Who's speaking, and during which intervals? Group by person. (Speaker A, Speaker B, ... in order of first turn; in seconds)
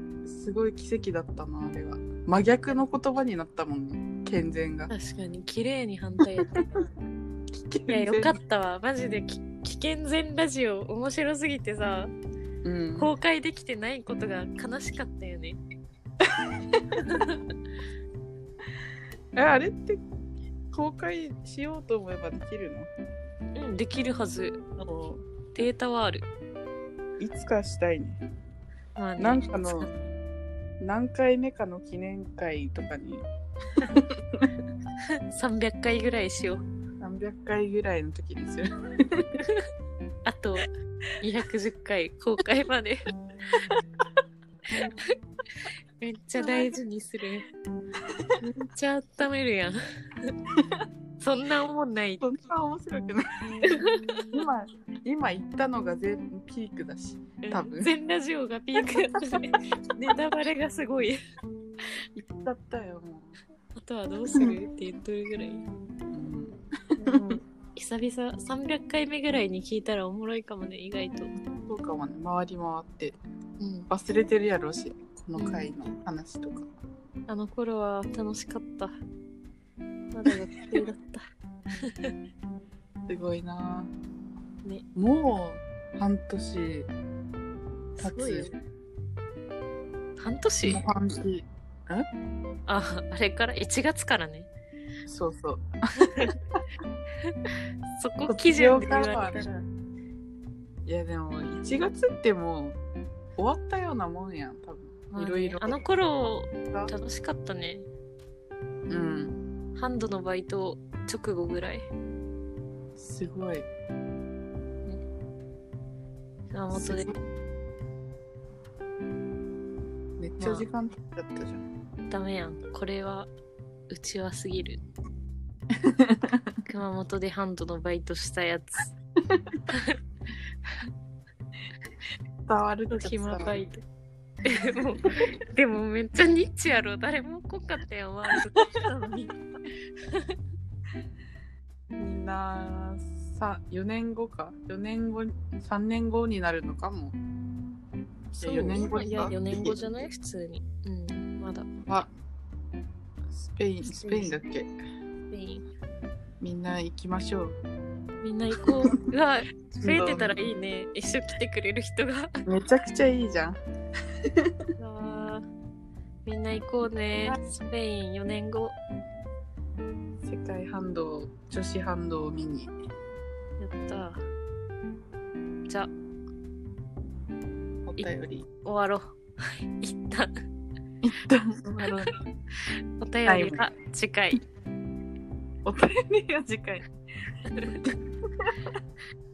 Speaker A: 0.2-4.9, 6.3-6.8, 7.5-8.4, 12.6-13.1, 16.2-16.8, 19.4-20.0, 20.7-22.9, 24.8-25.2, 27.2-28.2, 29.2-29.9, 30.8-33.2, 33.8-34.5, 37.0-39.4, 43.5-43.8, 46.4-46.8, 50.6-50.8, 52.2-53.7, 54.3-57.9, 62.1-63.4, 64.3-64.6, 66.1-67.3, 71.7-73.2, 73.9-76.7, 83.1-83.9, 84.9-86.9, 88.0-88.5, 90.7-92.1, 95.1-95.6, 98.3-99.5, 100.9-102.8, 103.3-105.8, 108.9-109.4, 113.0-113.7, 116.7-117.1, 120.2-121.6, 125.8-126.4, 132.4-133.6, 142.0-147.2, 148.4-149.8, 151.9-152.1, 153.3-154.7, 156.4-157.6, 158.7-158.9, 159.8-160.5, 162.4-163.6, 170.2-172.7, 177.8-178.5, 181.0-182.1, 183.2-183.7, 185.6-186.9, 187.6-188.7
Speaker B: 4.9-6.7, 7.9-12.1, 13.0-15.6, 16.9-17.4, 23.6-24.6, 25.5-26.3, 29.0-29.9, 35.3-36.6, 40.2-40.7, 41.2-43.0, 44.8-45.1, 46.0-47.5, 48.4-50.3, 51.2-52.2, 53.7-54.2, 57.4-61.1, 63.7-65.7, 67.0-71.3, 73.6-73.9, 75.3-75.7, 77.3-79.0, 80.1-81.2, 81.9-82.1, 88.0-88.5, 90.2-90.8, 92.7-94.5, 96.0-96.3, 98.0-99.6, 105.1-107.9, 109.7-111.9, 116.5-117.1, 120.4-120.7, 122.1-123.3, 123.9-124.8, 126.7-128.9, 129.7-130.0, 132.9-133.8, 134.4-139.3, 140.1-140.3, 148.3-151.7, 153.8-154.3, 155.3-155.6, 158.2-162.3, 164.8-165.4, 166.2-168.8, 173.6-174.2, 178.6-180.3, 183.0-184.4